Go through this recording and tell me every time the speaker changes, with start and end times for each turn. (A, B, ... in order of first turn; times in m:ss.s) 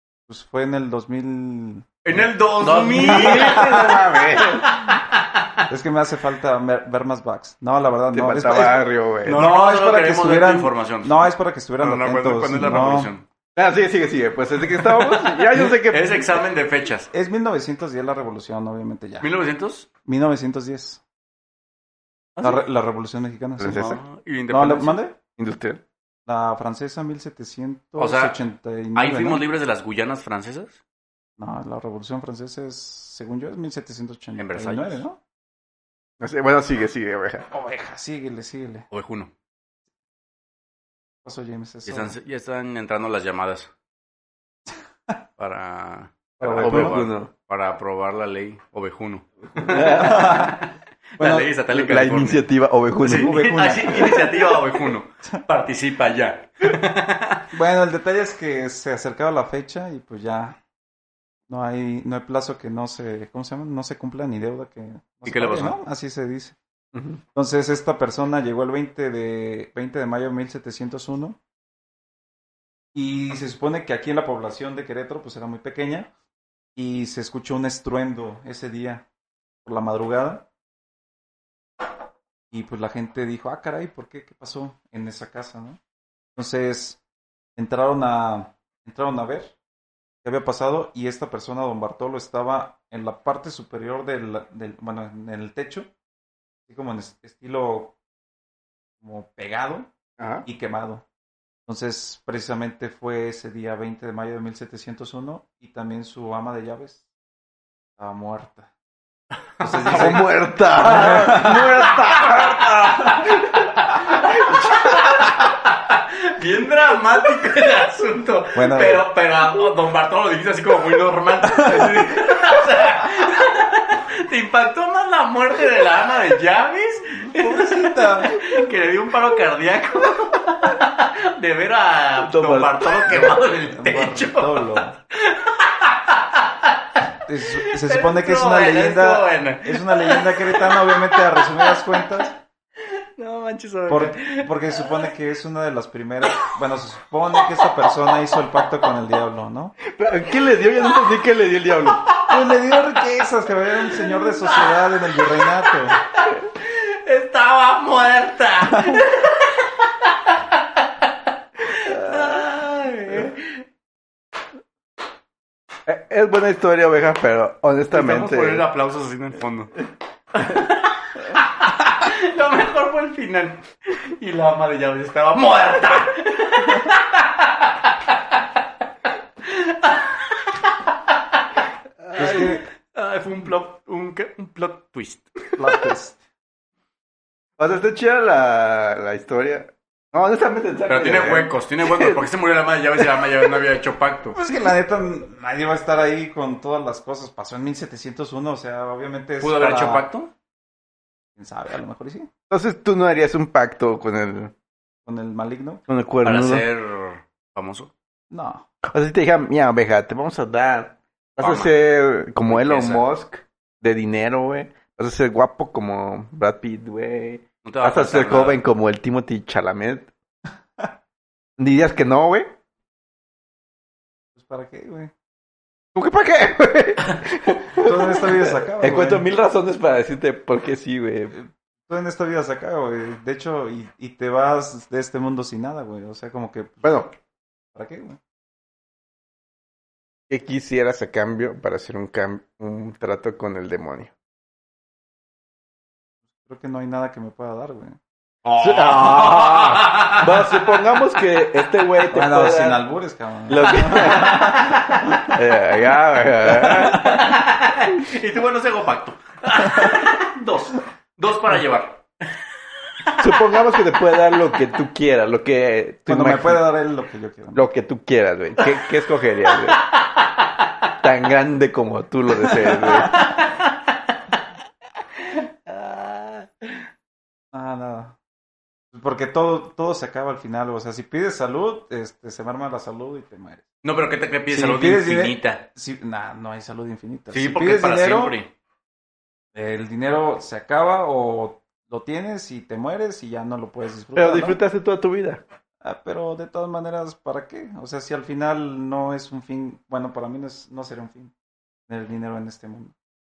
0:00.3-0:02.3 A
0:02.0-0:05.2 B
0:02.6-0:04.7 C
0:03.0-0:03.7 A
0:05.7-0:13.1 A
0:08.1-0:09.5 C
0:09.3-0:13.3 B
0:13.6-0:16.3 C
0:15.6-0:17.1 B
0:17.1-0:19.3 A
0:19.2-0:19.9 B
0:20.1-0:21.0 A
0:22.4-0:23.9 A
0:23.6-0:24.0 C
0:23.6-0:25.0 B
0:24.5-0:25.2 A
0:25.4-0:25.8 C
0:26.3-0:29.5 A
0:28.0-0:28.4 B
0:29.0-0:30.8 B
0:31.4-0:35.2 A
0:34.4-0:35.0 B
0:36.2-0:37.5 C
0:37.5-0:38.9 A
0:38.9-0:39.3 B
0:41.2-0:42.2 A
0:41.8-0:43.7 B
0:45.4-0:52.5 B
0:46.4-0:47.0 A
0:46.6-0:47.3 C
0:49.6-0:50.5 C
0:49.8-0:50.6 A
0:51.2-0:51.5 A
0:51.7-0:53.5 C
0:53.0-0:57.4 B
0:53.1-0:54.5 A
0:57.5-1:00.6 A
1:01.5-1:06.6 A
1:05.2-1:05.8 B
1:06.9-1:07.2 C
1:07.4-1:11.4 A
1:12.9-1:16.1 A
1:16.8-1:19.1 A
1:19.6-1:20.5 A
1:22.5-1:25.8 A
1:26.4-1:27.0 A
1:27.6-1:29.6 A
1:30.2-1:35.9 A
1:36.7-1:38.0 A
1:39.0-1:39.9 A
1:40.2-1:40.5 C
1:40.4-1:41.0 A
1:41.7-1:47.0 A
1:48.0-1:48.7 A
1:49.6-1:51.7 A
1:49.7-1:50.2 B
1:49.9-1:54.8 C
1:50.9-2:17.0 B
1:58.6-1:59.0 A
2:01.6-2:01.9 A
2:07.2-2:08.4 A
2:12.2-2:13.3 C
2:13.6-2:15.0 A
2:17.2-2:22.4 A
2:17.6-2:21.8 B
2:23.2-2:25.0 B
2:23.9-2:29.8 A
2:29.9-2:32.1 C
2:32.1-2:32.3 B
2:32.3-2:36.0 A
2:33.9-2:40.6 B
2:41.7-2:43.6 B
2:41.8-2:42.4 C
2:45.9-2:48.7 C
2:47.9-2:49.7 B
2:50.3-2:58.0 B
2:59.4-3:01.4 B
3:02.0-3:02.5 C
3:02.2-3:02.6 A
3:02.2-3:05.8 B
3:05.6-3:06.2 A
3:07.6-3:12.2 C
3:10.9-3:14.4 B
3:14.4-3:20.1 A
3:19.4-3:20.3 B
3:21.4-3:22.3 A
3:22.5-3:24.5 C
3:25.0-3:25.8 A
3:25.9-3:26.7 C
3:26.2-3:27.9 B
3:28.3-3:28.7 A
3:28.8-3:40.1 C
3:31.4-3:31.7 B
3:32.5-3:33.0 B
3:37.6-3:38.6 B
3:41.6-3:42.5 C
3:44.4-3:45.1 A
3:46.0-3:51.4 C
3:47.8-3:49.3 A
3:51.3-3:56.8 A
3:56.8-3:57.1 C
3:57.7-3:58.2 A
4:00.3-4:04.1 C
4:06.4-4:08.0 A
4:08.4-4:10.2 B
4:08.6-4:12.8 C
4:12.1-4:14.8 A
4:13.5-4:17.2 C
4:16.6-4:17.2 A
4:16.8-4:22.0 B
4:23.2-4:26.7 C
4:26.1-4:27.6 A
4:27.5-4:29.8 C
4:29.7-4:30.6 B
4:31.0-4:33.2 C
4:33.0-4:33.8 B
4:35.4-4:36.7 B
4:37.5-4:38.2 A
4:38.9-4:43.6 A
4:43.8-4:45.7 B
4:44.5-4:48.4 A
4:47.3-4:48.5 B
4:49.6-4:54.6 A
4:54.2-4:55.4 C
4:55.8-5:01.3 A
5:01.9-5:02.9 A